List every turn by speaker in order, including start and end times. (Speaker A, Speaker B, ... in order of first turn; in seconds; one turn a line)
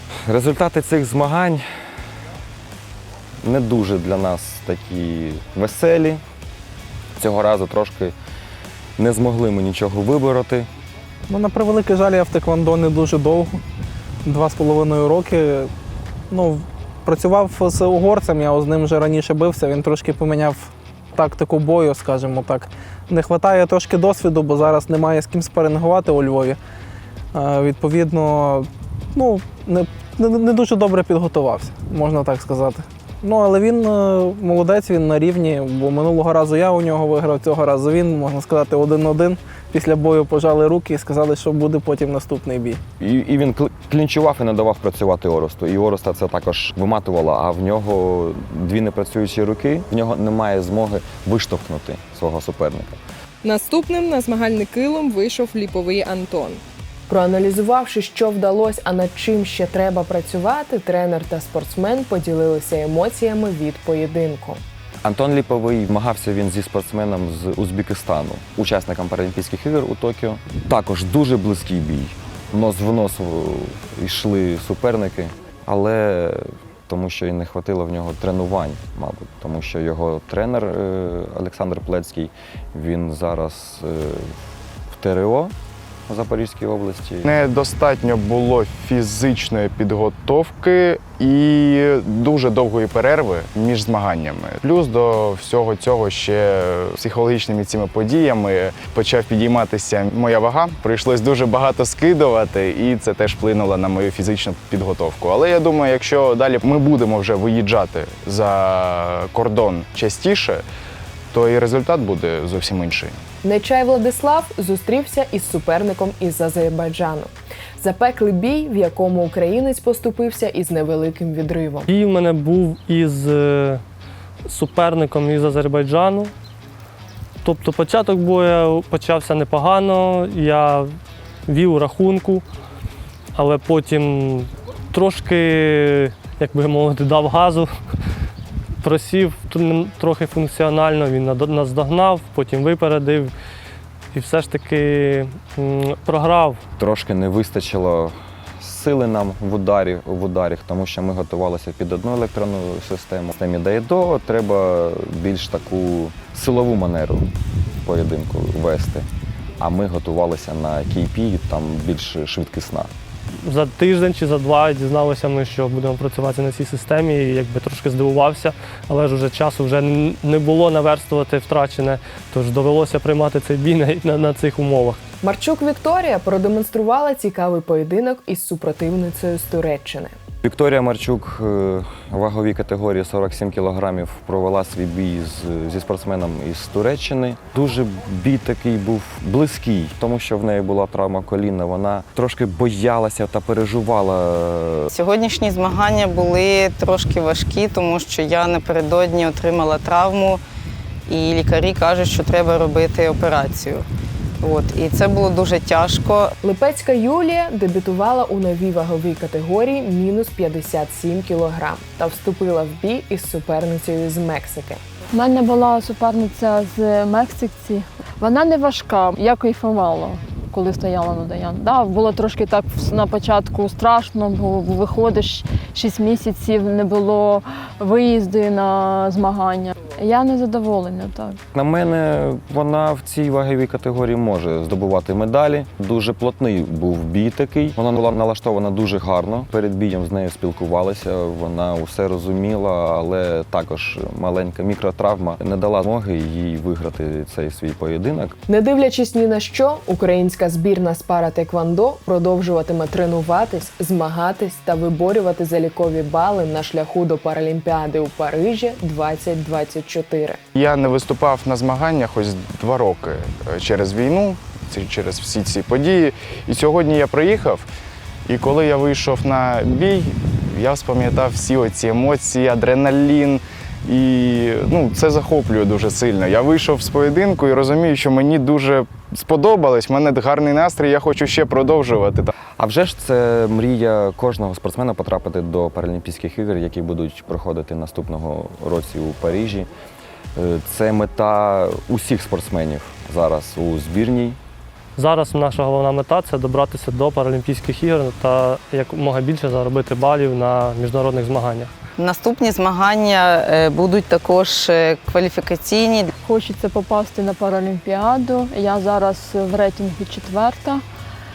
Speaker A: 0.3-1.6
Speaker A: 3.4-6.2
Speaker A: 7.2-8.2
Speaker A: 9.0-10.7
Speaker B: 11.3-13.6
Speaker B: 14.2-15.7
Speaker B: 16.3-26.6
Speaker B: 27.3-42.8
Speaker A: 43.0-53.0
Speaker C: 53.4-56.6
Speaker D: 57.1-64.6
Speaker A: 65.0-84.3
Speaker A: 84.9-85.5
Speaker A: 86.1-87.3
Speaker E: 87.2-110.6
Speaker E: 111.3-113.2
Speaker D: 113.4-121.9
Speaker F: 121.9-123.8
Speaker F: 124.5-126.3
Speaker F: 127.4-130.9
Speaker F: 131.5-132.4
Speaker F: 133.3-137.7
Speaker F: 138.8-143.3
Speaker F: 144.1-146.6
Speaker A: 146.8-159.1
Speaker A: 159.6-162.9
Speaker F: 163.4-175.0
Speaker D: 175.2-180.2
Speaker A: 180.4-194.9
Speaker G: 194.9-200.4
Speaker G: 201.1-203.9
Speaker G: 204.4-206.3
Speaker D: 206.4-214.8
Speaker H: 215.1-231.4
Speaker A: 231.5-248.3
Speaker D: 248.5-260.4
Speaker E: 260.6-267.7
Speaker E: 268.3-282.3
Speaker A: 282.6-289.7
Speaker A: 290.4-294.4
Speaker F: 295.0-301.7
Speaker G: 302.0-306.1
Speaker H: 306.2-310.8